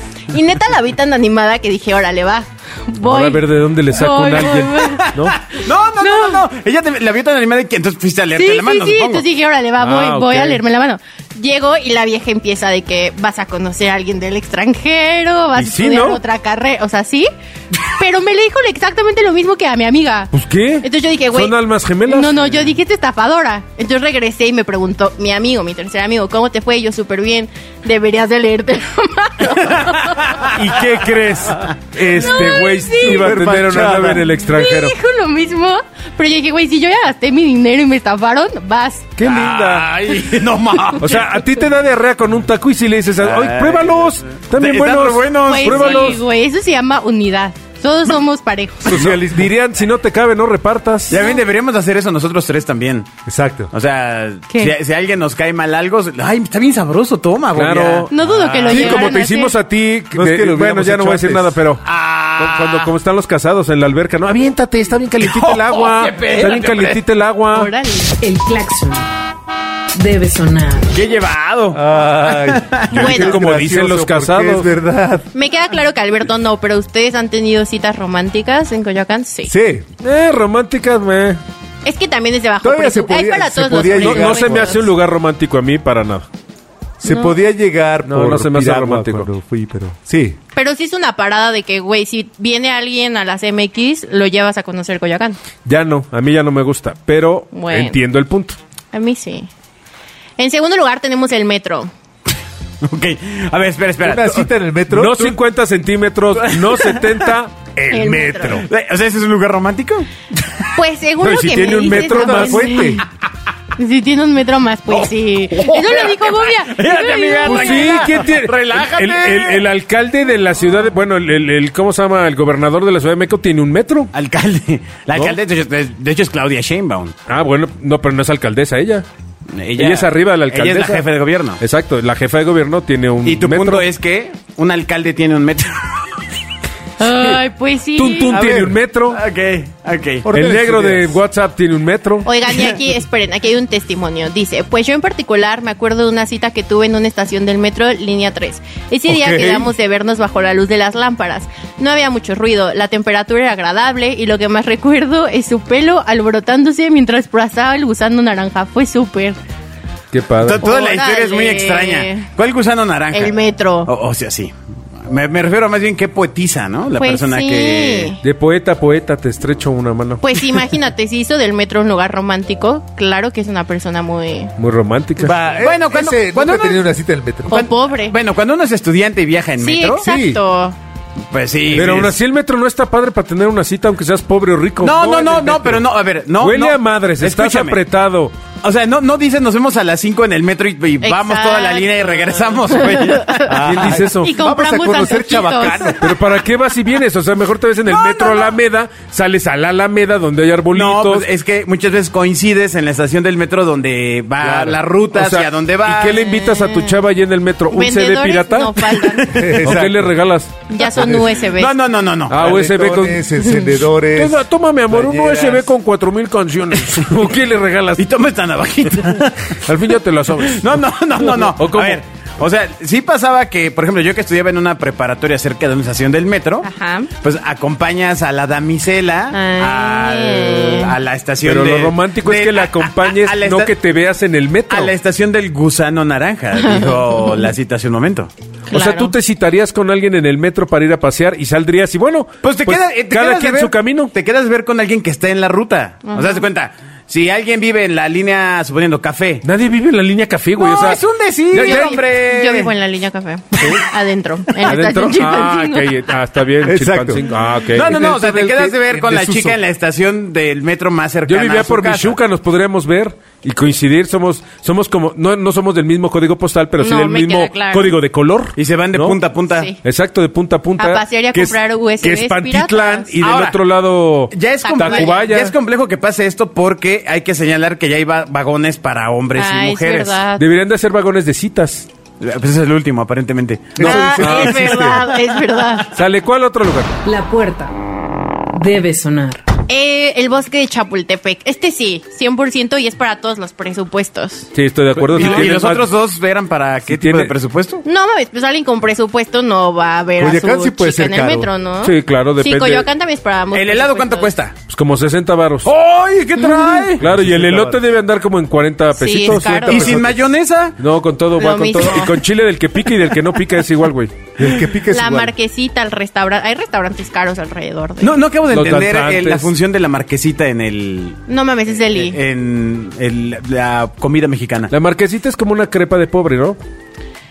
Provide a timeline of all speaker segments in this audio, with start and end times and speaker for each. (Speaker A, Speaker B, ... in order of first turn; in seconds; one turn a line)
Speaker A: 0.3-5.2
Speaker B: 3.0-5.4
Speaker C: 4.9-9.2
Speaker A: 6.0-6.5
Speaker A: 8.3-30.3
Speaker B: 9.8-10.6
Speaker B: 15.6-16.2
Speaker B: 20.3-22.4
Speaker C: 30.1-30.4
Speaker B: 30.4-34.9
Speaker A: 32.1-33.4
Speaker D: 33.0-34.3
Speaker A: 34.5-39.1
Speaker B: 39.2-39.9
Speaker C: 39.2-41.2
Speaker B: 41.0-46.2
Speaker C: 43.2-46.2
Speaker A: 45.5-49.0
Speaker D: 48.9-49.5
Speaker B: 48.9-51.2
Speaker C: 51.1-53.1
Speaker A: 51.1-51.4
Speaker D: 53.3-53.7
Speaker C: 53.7-59.2
Speaker A: 54.5-54.8
Speaker B: 57.5-58.1
Speaker A: 58.1-59.5
Speaker B: 58.7-61.9
Speaker D: 60.1-61.6
Speaker C: 61.9-62.9
Speaker B: 62.4-67.7
Speaker C: 65.2-67.0
Speaker A: 67.5-68.2
Speaker E: 68.2-69.0
Speaker E: 70.0-70.9
Speaker C: 70.9-73.1
Speaker D: 71.7-75.3
Speaker B: 72.9-74.7
Speaker A: 73.0-73.4
Speaker A: 75.3-79.5
Speaker D: 79.5-79.8
Speaker B: 80.0-81.4
Speaker A: 81.8-84.9
Speaker D: 82.6-84.8
Speaker B: 83.9-86.3
Speaker D: 87.0-90.4
Speaker A: 87.0-87.4
Speaker B: 88.0-89.3
Speaker A: 90.5-95.4
Speaker B: 95.7-98.6
Speaker A: 97.5-98.0
Speaker A: 98.9-99.5
Speaker A: 100.4-101.9
Speaker C: 102.8-104.5
Speaker D: 104.0-105.4
Speaker B: 104.9-108.7
Speaker C: 106.3-107.4
Speaker A: 107.9-108.7
Speaker C: 108.6-110.7
Speaker A: 110.7-113.0
Speaker B: 111.2-112.8
Speaker D: 111.9-113.0
Speaker A: 113.8-118.3
Speaker C: 115.0-119.7
Speaker B: 117.4-124.1
Speaker C: 124.1-127.2
Speaker B: 127.3-129.1
Speaker C: 129.5-131.6
Speaker B: 129.8-131.1
Speaker B: 131.6-133.9
Speaker C: 133.2-136.1
Speaker A: 137.0-138.4
Speaker B: 138.0-139.2
Speaker D: 138.3-138.8
Speaker C: 139.1-140.3
Speaker D: 140.3-141.2
Speaker B: 140.3-142.3
Speaker A: 142.2-159.4
Speaker D: 149.1-149.6
Speaker B: 160.1-160.6
Speaker C: 160.4-164.5
Speaker A: 160.6-162.3
Speaker A: 163.1-163.9
Speaker C: 165.1-168.1
Speaker A: 167.0-168.2
Speaker B: 168.2-170.2
Speaker A: 170.2-174.5
Speaker B: 174.6-175.3
Speaker D: 175.2-177.6
Speaker C: 175.6-176.8
Speaker C: 177.5-180.1
Speaker A: 177.5-178.2
Speaker A: 179.6-180.8
Speaker B: 180.0-180.4
Speaker C: 181.3-182.2
Speaker B: 181.7-185.8
Speaker C: 184.8-187.8
Speaker B: 186.4-188.3
Speaker C: 188.6-193.5
Speaker A: 191.0-196.0
Speaker D: 193.5-196.2
Speaker B: 193.5-194.3
Speaker B: 195.9-201.3
Speaker C: 197.8-198.6
Speaker C: 200.7-206.3
Speaker D: 204.4-204.8
Speaker B: 205.1-210.5
Speaker A: 206.2-207.0
Speaker A: 207.7-209.6
Speaker D: 209.3-210.2
Speaker A: 210.7-211.7
Speaker D: 210.9-211.2
Speaker C: 211.0-212.5
Speaker B: 212.3-213.3
Speaker D: 212.3-215.7
Speaker A: 213.4-213.8
Speaker B: 214.1-218.0
Speaker C: 218.0-219.6
Speaker B: 219.6-222.0
Speaker C: 220.4-233.7
Speaker A: 226.6-227.1
Speaker A: 229.3-231.0
Speaker B: 231.4-234.9
Speaker C: 234.7-238.3
Speaker A: 236.6-237.4
Speaker A: 238.7-239.2
Speaker B: 238.7-244.1
Speaker C: 242.4-249.5
Speaker A: 246.1-246.4
Speaker B: 249.4-251.9
Speaker C: 250.6-252.7
Speaker A: 251.6-255.9
Speaker B: 253.6-253.9
Speaker B: 254.6-258.0
Speaker D: 256.6-259.6
Speaker C: 257.7-262.2
Speaker B: 261.3-269.2
Speaker A: 266.8-268.0
Speaker C: 268.6-269.7
Speaker A: 269.5-269.8
Speaker B: 269.8-275.6
Speaker A: 270.8-273.2
Speaker C: 273.2-273.6
Speaker C: 274.3-280.2
Speaker A: 274.6-275.3
Speaker A: 279.4-280.4
Speaker B: 280.4-281.9
Speaker C: 282.2-284.1
Speaker D: 283.8-285.1
Speaker A: 283.8-285.9
Speaker B: 283.8-284.9
Speaker B: 285.9-286.9
Speaker E: 287.1-287.7
Speaker E: 288.5-289.4
Speaker A: 289.7-294.5
Speaker B: 294.5-295.9
Speaker C: 295.0-297.8
Speaker B: 296.9-297.3
Speaker A: 297.9-304.3
Speaker D: 300.2-301.5
Speaker B: 301.8-302.9
Speaker C: 303.5-304.6
Speaker B: 304.7-305.7
Speaker C: 305.6-307.0
Speaker A: 306.4-306.9
Speaker D: 307.0-307.9
Speaker B: 307.0-310.2
Speaker A: 308.9-309.9
Speaker D: 309.3-310.2
Speaker C: 309.7-310.8
Speaker B: 310.8-314.1
Speaker A: 311.4-312.2
Speaker D: 314.4-315.3
Speaker A: 314.9-318.2
Speaker C: 318.0-321.2
Speaker B: 318.5-319.5
Speaker A: 321.3-322.2
Speaker C: 321.9-324.7
Speaker B: 324.7-326.6